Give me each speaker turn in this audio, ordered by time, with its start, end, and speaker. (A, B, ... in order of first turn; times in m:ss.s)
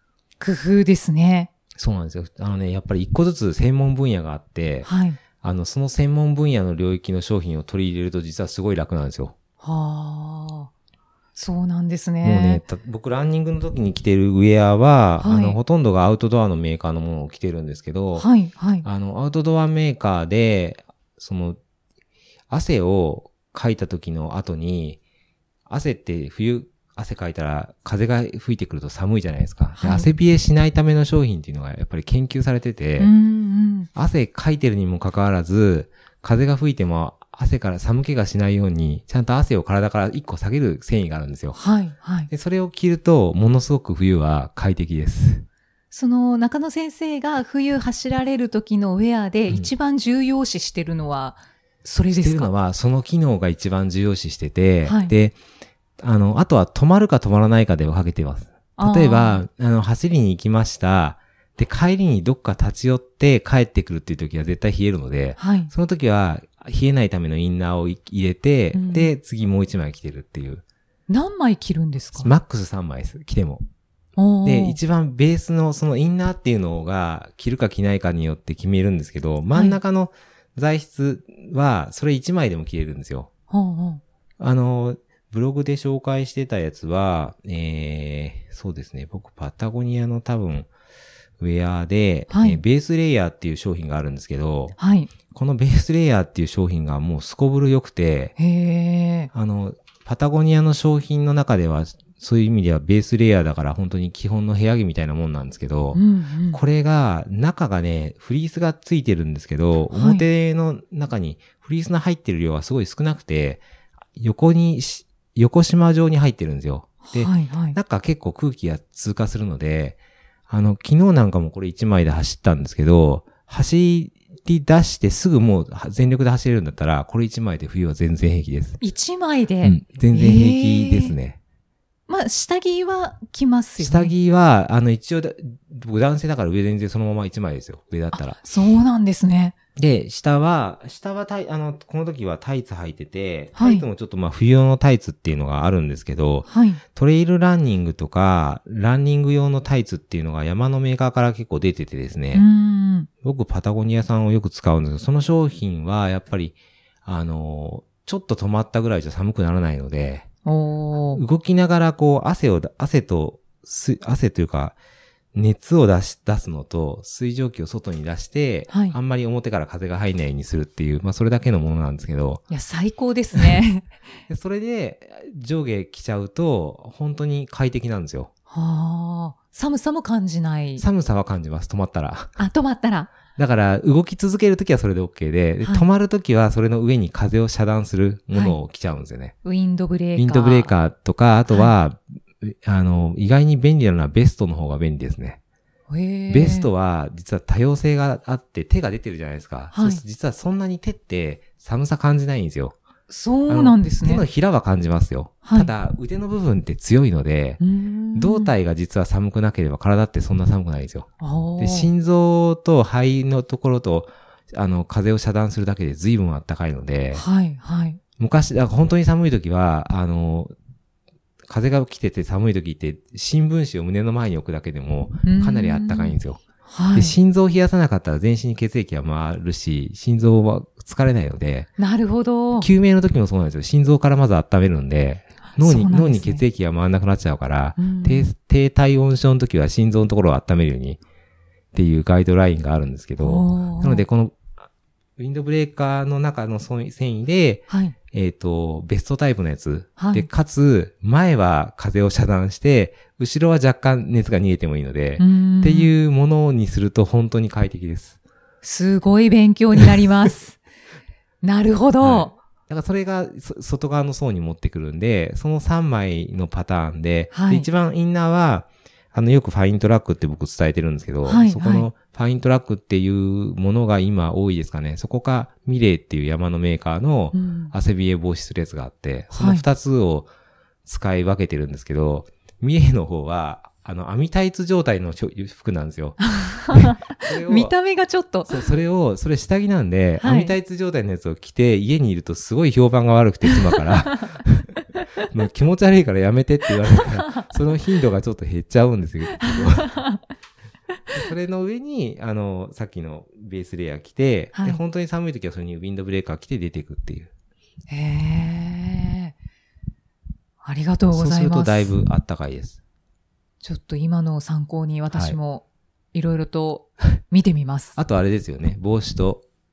0:00.4-0:01.5 A
0:01.8-0:04.9 B
0:04.8-0:05.2 A
0:05.4-0:09.3 B
0:09.6-0:10.7 A
0:11.3-0:12.6 A
0:12.2-0:18.3 B
0:15.2-0:15.6 A
0:18.1-0:18.8 A
0:18.8-0:21.6 B
0:22.5-0:25.0 B
0:25.7-0:33.1 B
0:29.8-0:30.1 A
0:33.0-0:33.9 A
0:33.9-0:41.6 B
0:41.5-0:42.3 A
0:42.3-0:45.4 B
0:45.9-0:52.5 A
0:52.2-0:55.4 B
0:54.8-0:55.1 A
0:56.0-1:10.6 B
0:58.8-0:59.4 A
1:05.4-1:05.7 A
1:08.7-1:09.1 A
1:11.1-1:12.3 A
1:12.2-1:13.6 B
1:14.2-1:14.8 A
1:14.4-1:23.3 B
1:19.5-1:19.8 A
1:23.5-1:24.0 A
1:24.4-1:30.7 B
1:31.4-1:34.8 B
1:32.3-1:32.6 A
1:34.8-1:35.1 A
1:35.3-1:38.3 B
1:38.4-1:39.3 A
1:39.3-1:53.6 B
1:45.9-1:46.6 A
1:49.9-1:50.2 A
1:54.2-2:08.8 B
1:57.0-1:57.8 A
2:08.8-2:11.2 A
2:09.6-2:11.4 B
2:12.1-2:14.1 A
2:13.8-2:18.4 B
2:18.1-2:19.6 A
2:19.8-2:32.4 B
2:23.6-2:23.8 A
2:26.5-2:26.8 A
2:32.3-2:33.1 A
2:33.2-2:40.3 B
2:40.4-2:41.2 A
2:41.1-2:44.8 B
2:45.3-2:52.4 B
2:48.7-2:49.0 A
2:52.5-2:53.9 A
2:54.3-2:58.3 B
2:58.5-3:00.8 A
3:00.8-3:02.4 B
3:02.4-3:03.1 A
3:03.3-3:09.3 B
3:09.4-3:10.7 A
3:10.2-3:15.4 B
3:15.9-3:16.7 A
3:16.3-3:22.8 B
3:19.7-3:20.0 A
3:23.1-3:24.2 A
3:23.5-3:27.6 B
3:25.4-3:25.7 A
3:27.6-3:28.5 A
3:28.1-3:37.2 B
3:31.2-3:31.9 A
3:37.1-3:38.0 A
3:38.2-3:40.5 B
3:41.4-3:46.4 B
3:45.2-3:47.2 A
3:46.9-3:51.7 B
3:51.8-3:52.7 A
3:52.6-4:01.0 B
3:55.5-3:56.4 A
3:57.8-3:58.3 A
4:01.7-4:04.5 B
4:03.2-4:04.0 A
4:05.2-4:18.2 B
4:07.7-4:07.9 A
4:10.0-4:10.3 A
4:15.2-4:15.9 A
4:18.6-4:20.6 A
4:21.4-4:22.4 A
4:22.0-4:40.3 B
4:27.3-4:27.7 A
4:31.2-4:31.9 A
4:37.3-4:37.7 A
4:39.3-4:39.6 A
4:40.8-4:47.7 B
4:46.2-4:48.6 A
4:48.5-4:54.7 B
4:50.2-4:50.5 A
4:55.3-4:59.9 B
4:59.4-5:00.2 A
5:01.1-5:07.3 B
5:04.5-5:04.8 A
5:07.9-5:09.3 A
5:10.6-5:11.9 A
5:11.1-5:12.8 B
5:13.6-5:18.0 A
5:15.1-5:15.4 B
5:18.0-5:19.4 B